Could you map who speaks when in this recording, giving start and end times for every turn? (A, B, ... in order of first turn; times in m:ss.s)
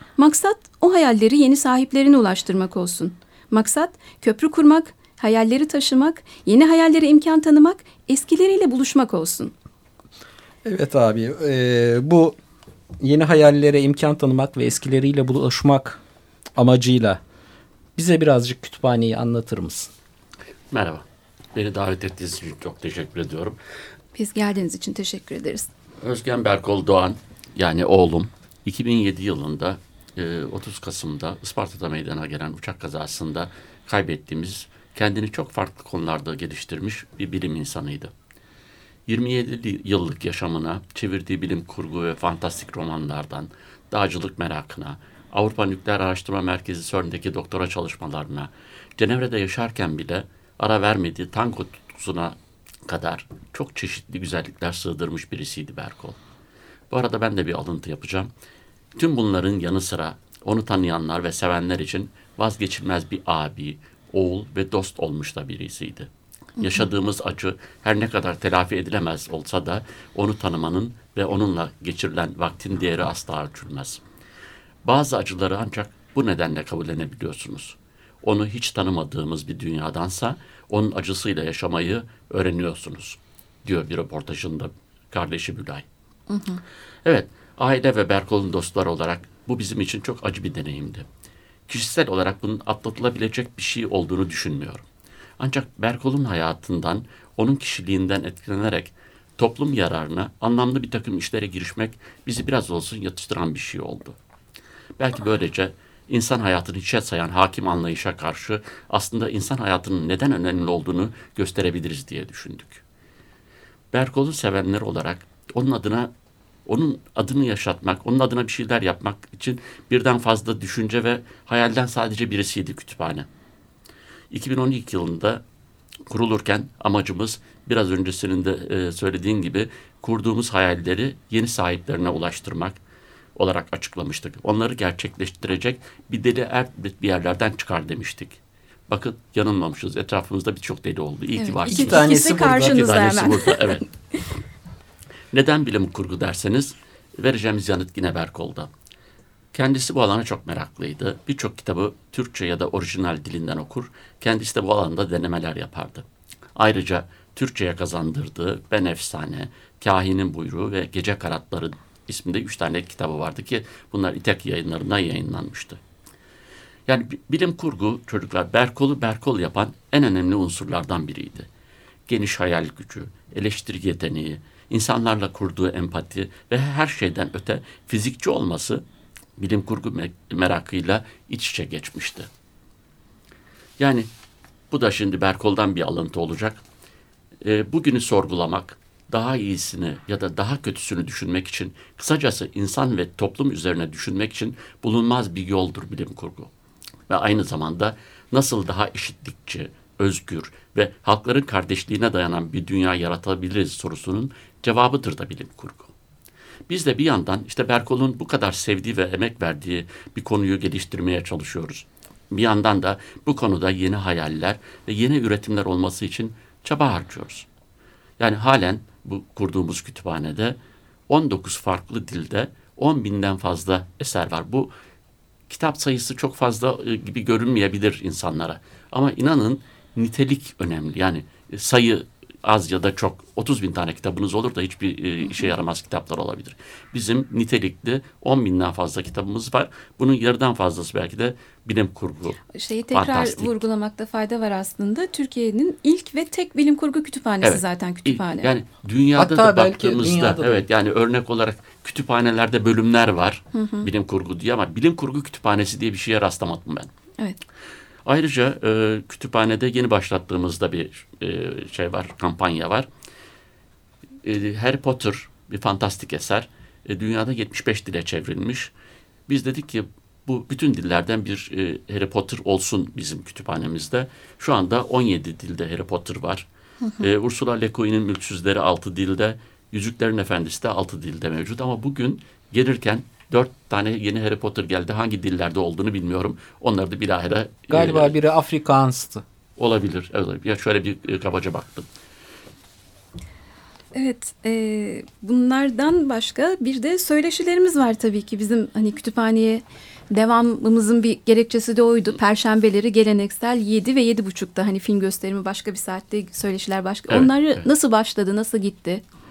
0:00.2-0:09.5 A
0:10.6-0:12.4 B
0:13.0-0:16.0 B
0:16.6-0:17.2 B
0:18.0-0:19.9 B
0:20.7-0:21.0 C
0:21.6-0:23.6 C
0:24.2-0:25.7 A
0:26.0-0:38.1 C
0:39.1-0:56.2 C
0:56.9-0:58.3 C
0:59.0-1:14.0 C
1:14.8-1:25.8 C
1:26.3-1:26.6 A
1:27.0-1:31.1 C
1:31.7-1:34.8 C
1:35.4-1:44.2 C
1:45.0-1:52.8 C
1:53.9-1:56.1 C
1:56.7-2:03.3 C
2:04.3-2:05.4 C
2:06.1-2:12.8 C
2:13.4-2:23.9 C
2:21.4-2:23.9 A
2:21.7-2:22.9 B
2:25.3-2:28.7 C
2:29.5-2:36.0 C
2:36.6-2:45.8 C
2:46.9-2:51.5 C
2:52.1-2:58.8 C
2:59.4-3:02.3 C
3:03.8-3:04.1 C
3:04.7-3:06.6 C
3:07.4-3:16.5 C
3:17.1-3:25.9 C
3:26.7-3:37.5 C
3:38.2-3:40.6 C
3:41.1-3:44.7 C
3:45.5-4:02.4 C
4:02.5-4:08.5 A
4:02.9-4:03.6 C
4:07.4-4:16.9 C
4:09.2-4:10.7 B
4:13.5-4:13.9 A
4:18.0-4:22.9 C
4:24.2-4:28.7 C
4:29.3-4:36.5 C
4:37.0-4:48.1 C
4:47.7-4:49.2 B
4:49.6-4:51.9 C
4:53.9-5:09.0 A
5:07.1-5:07.6 C